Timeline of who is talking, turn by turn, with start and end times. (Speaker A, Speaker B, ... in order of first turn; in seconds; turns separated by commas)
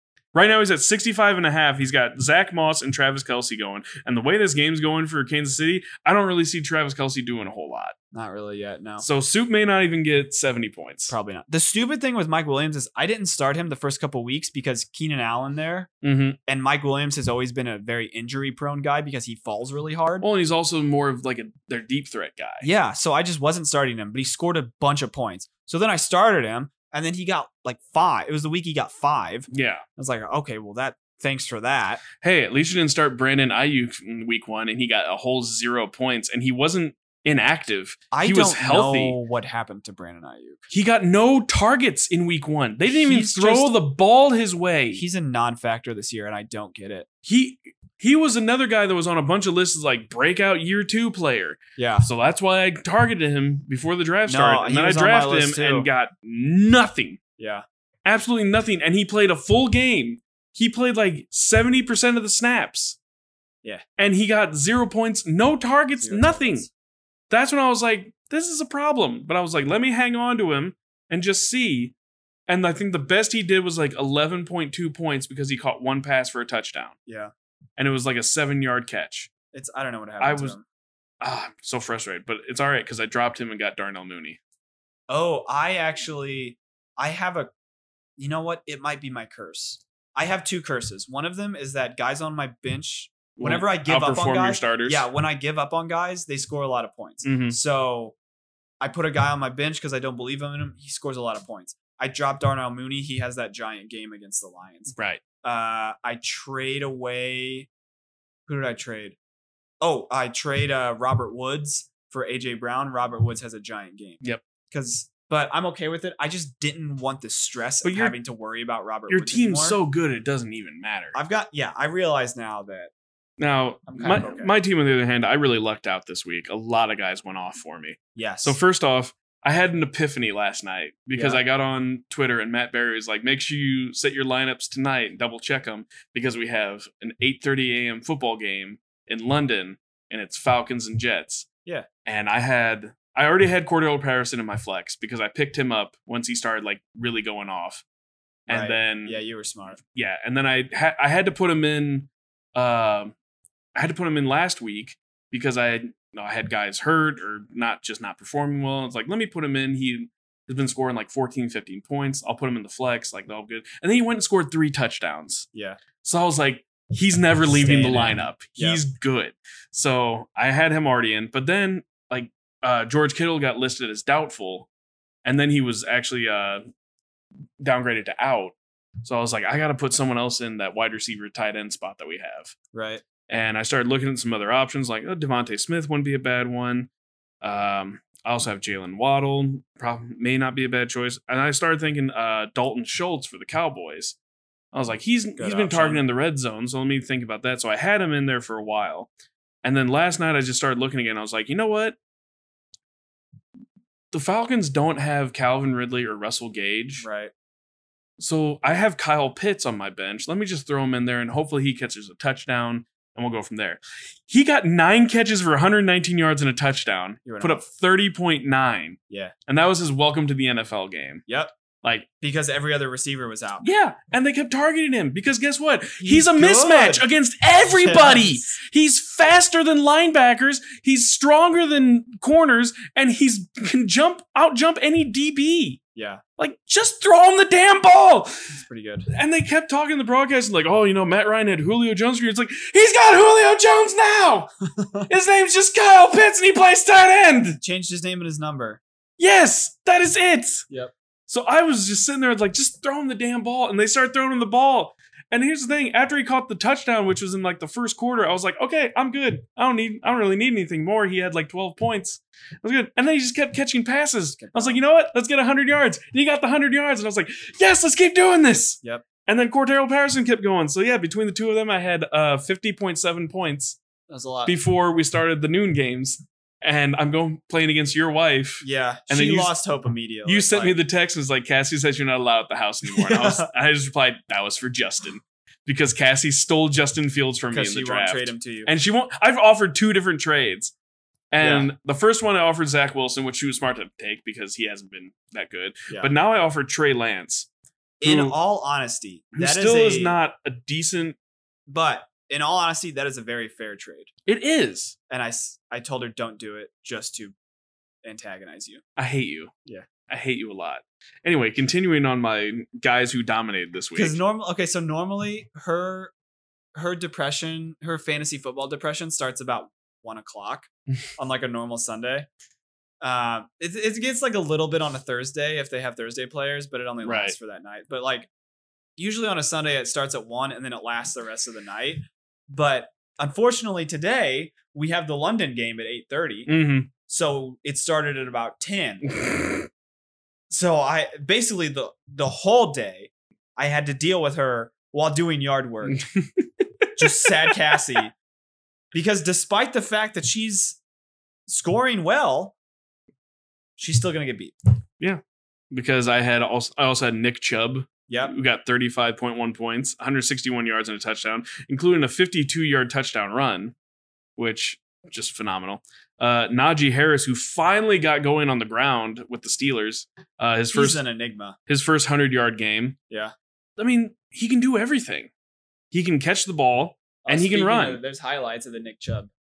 Speaker A: 0.3-8.0, Speaker B: 8.1-9.1, Speaker A: 9.0-11.1, Speaker B: 11.1-15.9, Speaker A: 16.0-16.4, Speaker B: 16.5-20.3, Speaker A: 20.2-22.6, Speaker B: 22.6-32.0, Speaker A: 29.5-29.9, Speaker A: 32.2-39.2, Speaker B: 38.1-40.7, Speaker A: 40.7-45.0, Speaker B: 42.9-43.7, Speaker B: 44.9-47.1, Speaker A: 47.2-57.2, Speaker B: 51.8-52.1, Speaker B: 54.3-55.9, Speaker B: 57.4-57.6, Speaker A: 58.0-63.0, Speaker A: 64.0-66.7, Speaker B: 66.0-66.7, Speaker A: 67.3-72.0, Speaker A: 72.5-77.0, Speaker B: 77.1-77.3, Speaker A: 77.8-79.3, Speaker B: 79.5-80.6, Speaker A: 80.2-80.6, Speaker A: 81.2-84.4, Speaker B: 85.1-87.5, Speaker B: 88.2-98.2, Speaker A: 93.4-95.0, Speaker A: 97.2-97.6, Speaker B: 98.8-107.7, Speaker A: 104.9-105.2, Speaker B: 108.5-109.2, Speaker B: 109.8-119.8, Speaker A: 117.8-118.2, Speaker A: 119.1-121.2, Speaker B: 121.1-122.9, Speaker A: 123.4-141.5, Speaker B: 123.9-124.5, Speaker B: 128.2-128.6, Speaker B: 131.2-131.4, Speaker A: 142.1-147.8, Speaker A: 148.5-149.2, Speaker B: 148.5-149.8, Speaker A: 149.8-153.2, Speaker A: 153.8-165.5, Speaker B: 165.5-165.8, Speaker A: 166.0-174.7, Speaker B: 167.4-168.8, Speaker A: 175.2-176.6, Speaker A: 177.6-182.5, Speaker B: 182.7-183.0, Speaker A: 183.3-186.9, Speaker A: 187.4-194.2, Speaker A: 194.7-199.1, Speaker B: 195.4-196.0, Speaker A: 199.6-202.0, Speaker A: 204.1-207.1, Speaker B: 207.0-207.3, Speaker A: 208.2-221.2, Speaker B: 217.2-217.7, Speaker B: 221.3-221.5, Speaker B: 222.2-223.7, Speaker A: 223.6-235.8, Speaker B: 226.0-227.1, Speaker B: 227.7-228.6, Speaker B: 235.9-236.2, Speaker A: 236.4-238.6, Speaker B: 238.5-239.1, Speaker A: 239.1-244.5, Speaker B: 244.8-245.1, Speaker A: 245.1-247.6, Speaker B: 247.6-248.8, Speaker A: 249.2-250.7, Speaker A: 251.3-273.8, Speaker B: 264.4-264.8, Speaker B: 274.1-274.6, Speaker A: 274.4-279.5, Speaker B: 278.6-280.8, Speaker A: 280.2-290.7, Speaker B: 282.9-283.5, Speaker B: 287.5-288.7, Speaker A: 291.3-297.5, Speaker B: 291.4-291.7, Speaker B: 298.0-300.2, Speaker A: 298.0-298.4, Speaker A: 299.4-301.2, Speaker B: 301.7-304.1, Speaker A: 304.3-304.9, Speaker B: 305.1-307.4, Speaker B: 308.0-308.8, Speaker A: 309.0-309.5, Speaker A: 310.1-314.2, Speaker B: 313.9-316.1, Speaker B: 316.7-322.3, Speaker B: 323.0-328.3, Speaker A: 327.0-327.4, Speaker B: 329.0-336.5, Speaker A: 336.5-336.9, Speaker B: 337.1-339.1, Speaker A: 339.1-339.7, Speaker B: 340.5-346.0, Speaker A: 345.9-347.5, Speaker B: 347.0-348.1, Speaker B: 348.9-350.8, Speaker B: 351.5-352.6, Speaker B: 353.8-354.6, Speaker A: 355.0-363.7, Speaker B: 358.1-358.3, Speaker A: 364.4-371.0, Speaker B: 370.7-371.6, Speaker A: 371.7-373.0, Speaker A: 373.8-375.3, Speaker A: 375.9-378.0, Speaker B: 377.2-379.3